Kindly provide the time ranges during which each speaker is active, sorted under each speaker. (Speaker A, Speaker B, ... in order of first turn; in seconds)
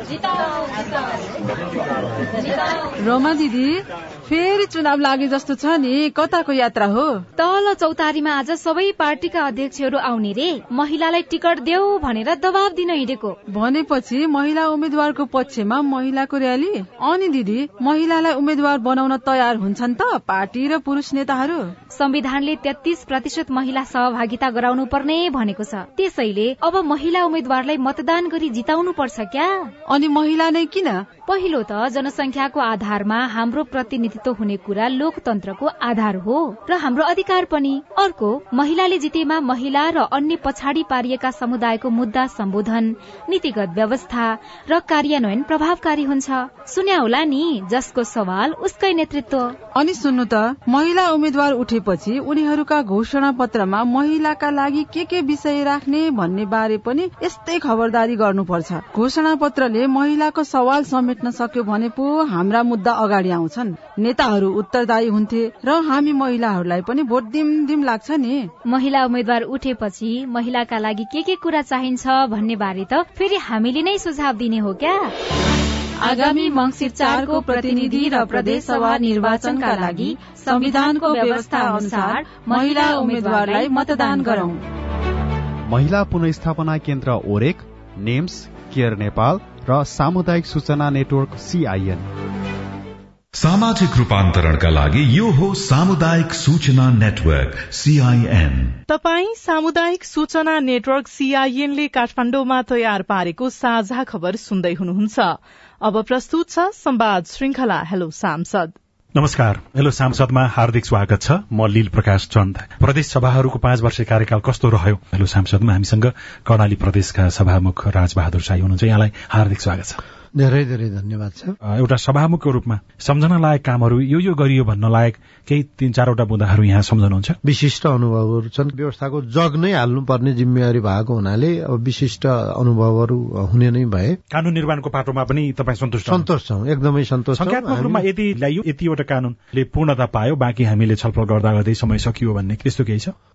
Speaker A: 3.0-7.2, 13.5-21.7, 29.9-31.1, 49.8-68.5, 76.0-84.6
Speaker B: 7.4-13.4, 21.9-29.7, 31.3-49.5, 68.7-75.1, 79.2-80.2, 81.1-84.4
Speaker C: 85.7-92.0
Speaker D: 93.4-98.8
Speaker E: 98.9-108.7
Speaker F: 109.2-120.0, 121.7-127.4, 134.3-136.3, 137.3-143.1
Speaker G: 120.4-121.5, 127.4-134.2, 136.1-138.1